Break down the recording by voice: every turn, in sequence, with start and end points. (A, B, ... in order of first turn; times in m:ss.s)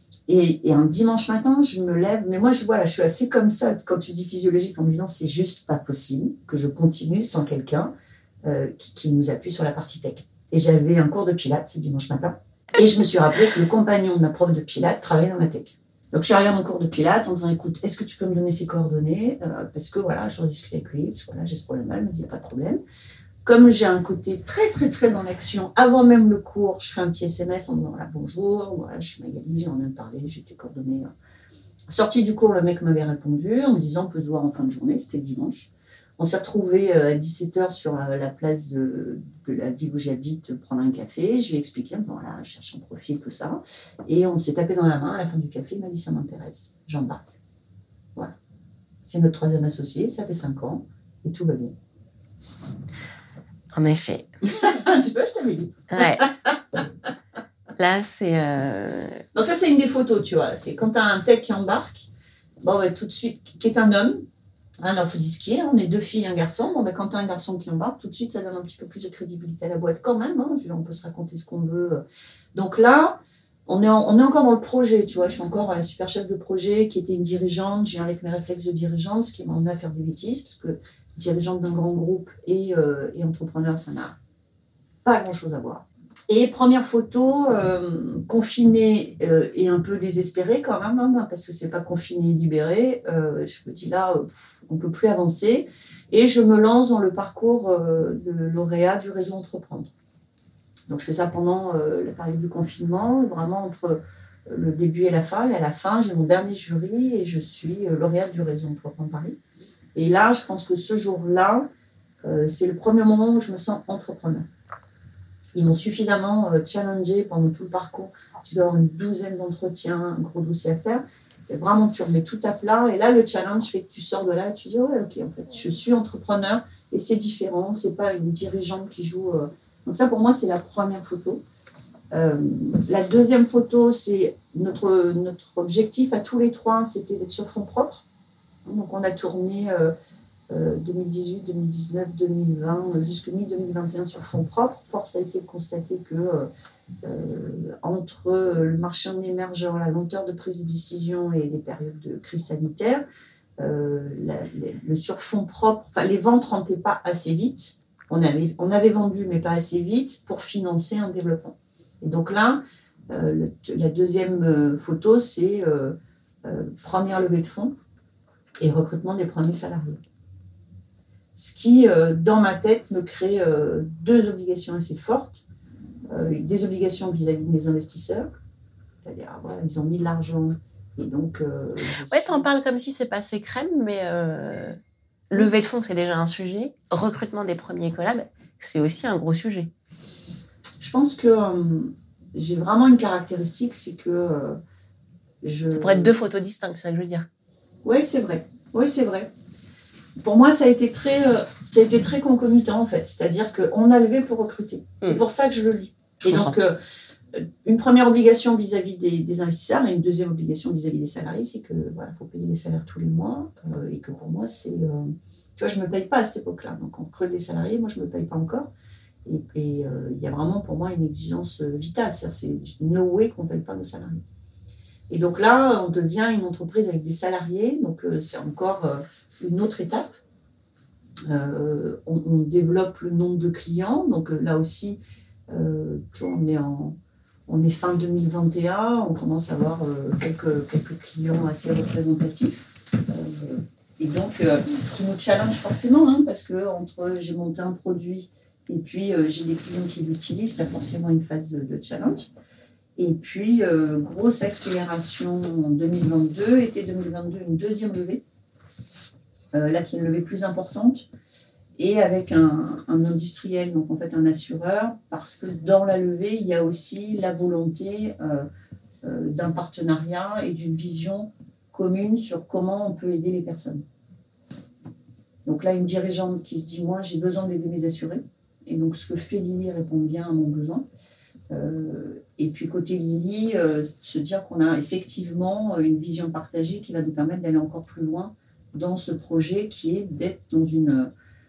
0:00.3-0:07.9 A
0:08.4-0:22.8 A
0:23.4-0:31.1 A
0:31.9-0:47.3 A
0:49.0-0:51.8 A
0:53.7-0:54.3 B
0:54.4-0:56.5 A
0:55.9-0:56.3 B
0:57.8-0:59.2 B
0:59.3-1:02.1 A
1:02.6-1:04.2 A
1:04.8-1:12.0 A
1:12.5-1:24.2 A
1:25.0-1:39.9 A
1:40.9-1:49.4 A
1:50.0-1:51.7 A
1:52.2-1:54.5 A
1:55.6-2:11.4 A
2:12.1-2:18.0 A
2:18.7-2:19.9 A
2:20.5-2:26.5 A
2:27.0-2:33.0 A
2:33.6-2:47.7 A
2:48.6-2:50.0 A
2:51.3-2:55.4 A
2:56.1-2:58.3 A
2:59.0-3:02.5 A
3:02.1-3:04.8 B
3:05.3-3:09.7 B
3:10.8-3:14.6 A
3:15.4-3:16.1 A
3:15.7-3:17.3 B
3:17.8-3:19.3 A
3:20.2-3:26.8 A
3:26.2-3:26.6 B
3:27.3-3:38.7 A
3:39.2-3:44.2 A
3:45.1-3:50.2 A
3:51.3-3:57.0 A
3:57.5-4:12.3 A
4:13.0-4:18.2 A
4:19.5-4:21.1 A
4:21.8-4:28.5 A
4:29.0-4:33.8 A
4:35.4-4:40.9 A
4:41.5-4:51.1 A